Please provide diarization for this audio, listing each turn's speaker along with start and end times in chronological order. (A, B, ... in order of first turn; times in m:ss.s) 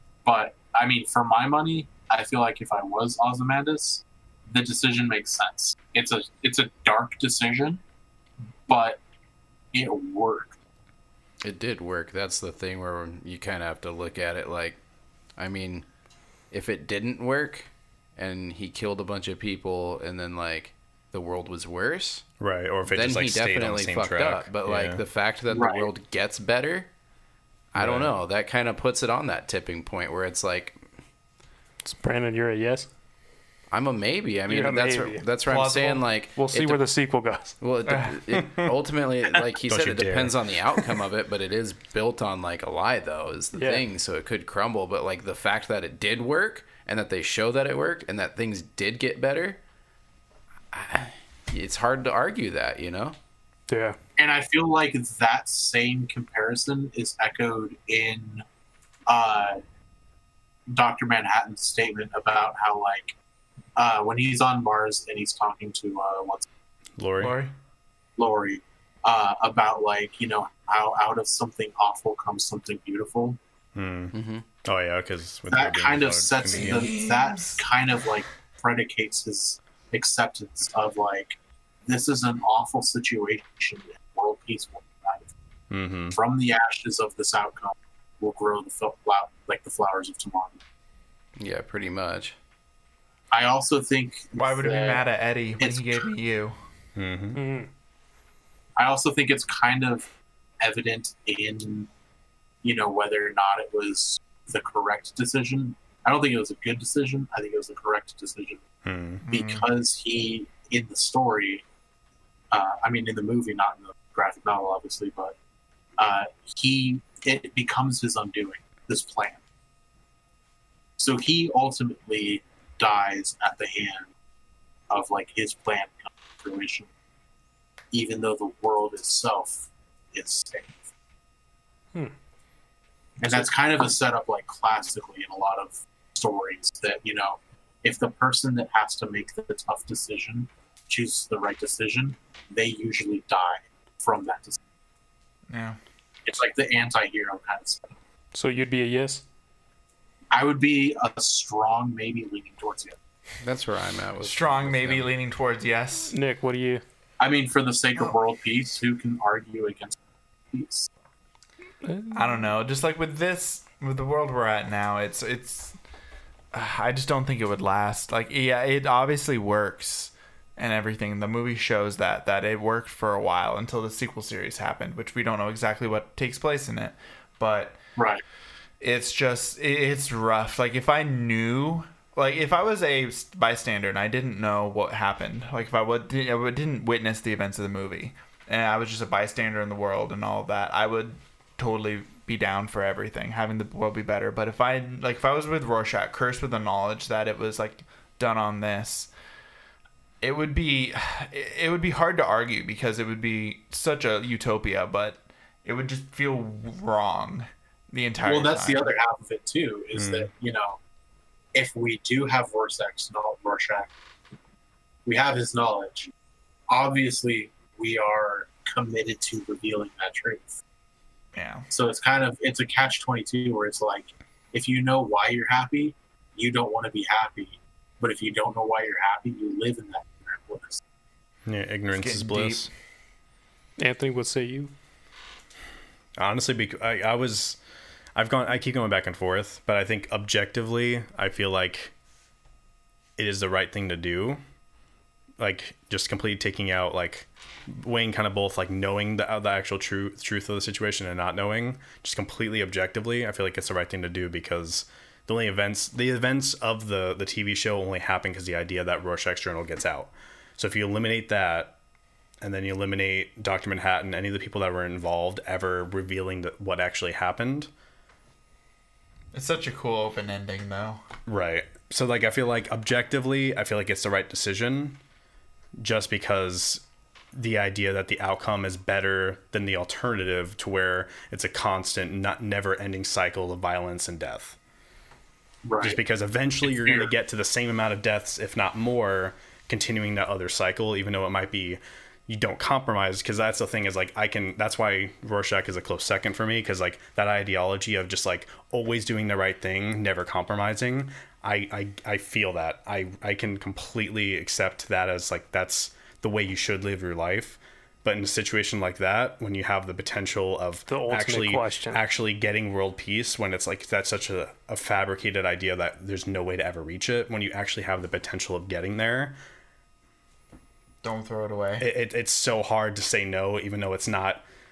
0:00.2-0:07.8 A
0:08.7-0:09.0 A
0:09.7-0:10.5 A
0:11.4-0:14.8 B
0:15.4-0:15.8 B
0:16.5-0:22.3 B
0:22.4-0:25.0 C
0:22.9-0:26.9 B
0:25.5-0:25.9 A
0:27.7-0:30.8 B
0:27.7-0:28.2 C
0:31.8-0:32.9 D
0:33.7-0:36.9 B
0:34.5-0:35.2 D
0:35.4-0:36.1 E
0:36.4-0:37.5 D
0:37.6-0:49.6 B
0:37.8-0:38.2 E
0:38.4-0:38.7 C
0:39.7-0:40.9 C
0:43.6-0:43.8 D
0:50.7-0:53.2 B
0:53.7-0:54.0 D
0:54.2-0:58.4 A
0:59.1-0:59.6 A
1:00.7-1:03.1 A
1:03.8-1:06.4 A
1:07.0-1:07.4 C
1:07.2-1:07.5 E
1:08.2-1:13.4 A
1:13.7-1:16.9 C
1:14.1-1:14.4 B
1:15.5-1:25.3 A
1:16.5-1:17.6 E
1:25.7-1:26.2 C
1:26.1-1:30.6 A
1:31.4-1:32.3 B
1:33.3-1:35.1 A
1:34.4-1:36.5 E
1:35.6-1:36.0 A
1:37.0-1:37.4 C
1:37.3-1:37.7 D
1:38.8-1:40.0 A
1:40.6-1:41.9 A
1:42.6-1:48.6 A
1:48.8-1:49.2 C
1:49.3-1:51.6 A
1:49.3-1:49.6 E
1:52.5-1:55.3 A
1:56.0-1:59.4 A
2:01.0-2:04.1 A
2:04.9-2:06.9 A
2:07.9-2:10.8 A
2:13.2-2:24.6 A
2:25.5-2:25.8 E
2:26.2-2:27.9 A
2:28.3-2:29.2 D
2:30.3-2:33.0 A
2:33.4-2:35.2 B
2:34.2-2:36.1 E
2:36.1-2:36.8 D
2:37.2-2:40.0 A
2:40.5-2:40.9 A
2:41.8-2:42.4 D
2:42.1-2:45.8 E
2:46.5-2:57.8 E
2:58.0-2:58.2 A
2:58.8-3:19.1 E
3:20.2-3:28.9 E
3:28.2-3:30.8 A
3:29.9-3:30.3 C
3:31.5-3:33.9 A
3:35.0-3:36.1 A
3:36.7-3:40.6 A
3:41.3-3:41.7 E
3:41.7-3:50.8 A
3:51.5-3:52.7 C
3:51.9-3:52.7 E
3:53.8-3:54.7 D
3:56.2-3:57.6 C
3:58.2-4:01.9 C
4:03.2-4:04.4 C
4:05.4-4:21.8 C
4:22.4-4:27.7 C
4:29.3-4:31.0 E
4:31.2-4:35.0 C
4:35.8-4:44.6 C
4:45.6-4:46.0 A
4:45.8-5:19.4 C
4:46.7-4:47.1 A
5:10.9-5:12.0 D
5:21.0-5:21.9 E
5:21.8-5:24.4 C